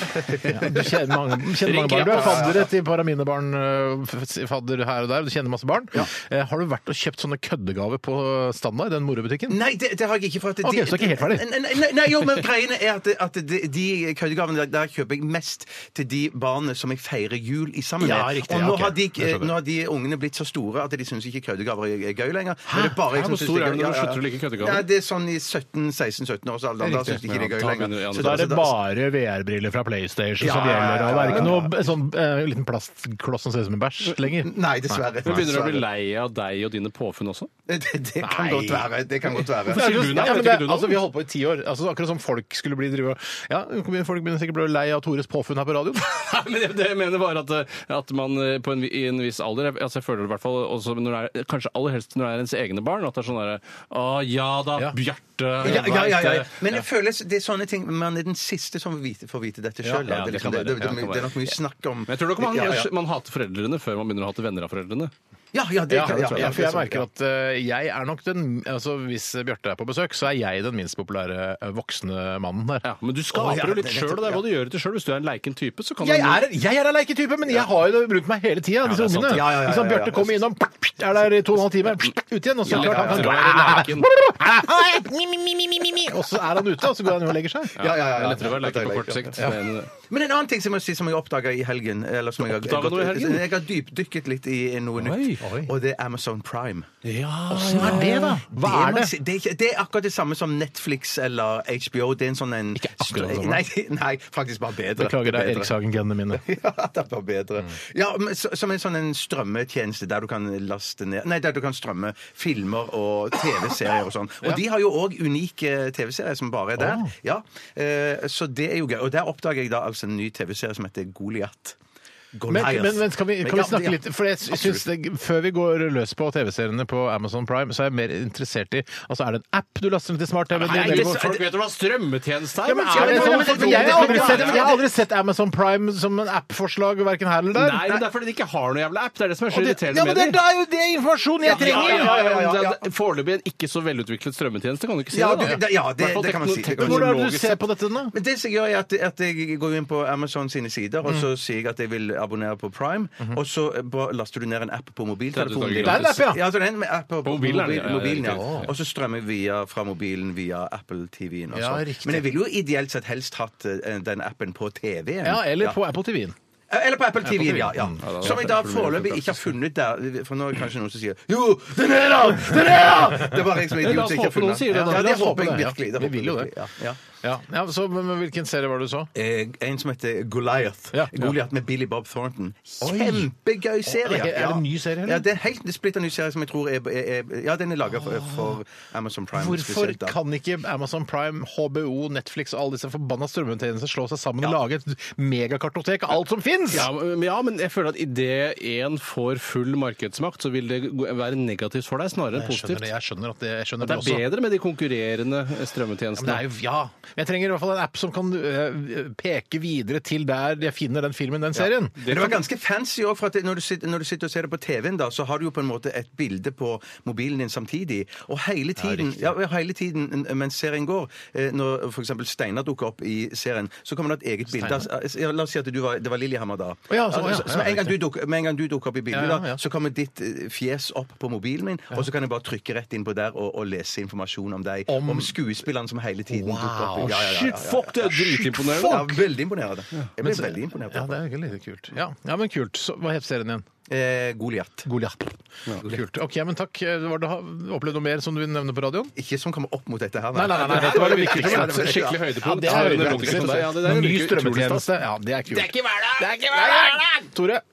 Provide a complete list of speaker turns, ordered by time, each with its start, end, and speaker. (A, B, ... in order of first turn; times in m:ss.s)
0:00.2-0:00.9 A
0:00.3-0:09.6 B
0:01.6-0:02.5 C
0:01.9-0:02.7 A
0:09.5-0:28.8 A
0:10.6-0:11.5 B
0:18.0-0:19.6 B
0:22.7-0:23.1 B
0:23.1-0:24.9 C
0:26.8-0:35.4 B
0:27.3-0:28.5 C
0:30.4-0:31.7 A
0:31.2-0:31.5 C
0:34.3-0:35.9 A
0:35.2-0:37.5 C
0:37.7-0:40.1 A
0:38.2-0:46.1 B
0:39.7-0:41.0 C
0:46.0-0:56.6 C
0:55.6-0:56.4 B
0:55.6-1:02.9 A
0:59.8-1:00.2 B
1:00.1-1:01.5 C
1:02.1-1:05.1 C
1:05.5-1:07.0 A
1:05.9-1:12.9 B
1:06.1-1:06.6 C
1:12.8-1:16.4 C
1:13.3-1:14.4 A
1:16.0-1:27.9 B
1:18.8-1:19.5 C
1:19.3-1:20.4 A
1:22.7-1:24.1 C
1:22.7-1:23.3 A
1:27.8-1:29.9 C
1:27.8-1:29.5 A
1:30.1-1:36.9 A
1:32.4-1:33.4 C
1:35.0-1:35.4 C
1:35.4-1:35.7 B
1:37.0-1:38.4 C
1:37.5-1:39.1 B
1:37.6-1:45.7 A
1:42.8-1:43.6 B
1:45.0-1:46.4 B
1:46.3-2:01.8 A
1:56.8-1:57.1 B
2:02.3-2:04.8 A
2:02.5-2:11.5 B
2:10.6-2:14.7 C
2:10.7-2:11.3 A
2:12.6-2:18.1 B
2:12.9-2:14.8 A
2:17.5-2:20.4 C
2:19.5-2:22.2 B
2:21.4-2:22.9 A
2:21.4-2:27.6 C
2:25.1-2:27.2 A
2:26.7-2:28.1 B
2:28.1-2:45.8 A
2:35.3-2:36.4 C
2:35.8-2:36.4 B
2:37.2-2:38.7 C
2:38.2-2:38.7 B
2:41.5-2:42.3 B
2:45.2-2:46.4 B
2:46.7-2:57.0 A
2:47.2-2:48.4 B
2:48.0-2:49.4 C
2:53.8-2:55.3 C
2:54.7-2:56.5 B
2:57.2-2:59.1 B
2:59.2-3:10.2 A
3:00.9-3:01.4 B
3:02.8-3:03.3 B
3:03.8-3:05.3 B
3:08.0-3:08.6 B
3:09.3-3:16.9 B
3:16.7-3:22.9 C
3:22.3-3:24.3 B
3:23.8-3:26.4 C
3:26.2-3:32.2 B
3:31.6-3:58.1 A
3:32.0-3:32.4 C
3:38.8-3:39.3 B
3:44.5-3:44.9 B
3:46.9-3:48.0 B
3:49.1-3:49.6 B
3:54.9-3:55.6 B
3:56.3-3:59.2 B
3:57.0-3:59.1 C
3:58.7-4:01.2 A
4:00.2-4:03.7 B
4:03.9-4:04.9 A
4:04.8-4:09.1 B
4:09.2-4:13.6 A
4:10.3-4:17.6 B
4:10.5-4:14.9 C
4:15.5-4:17.2 C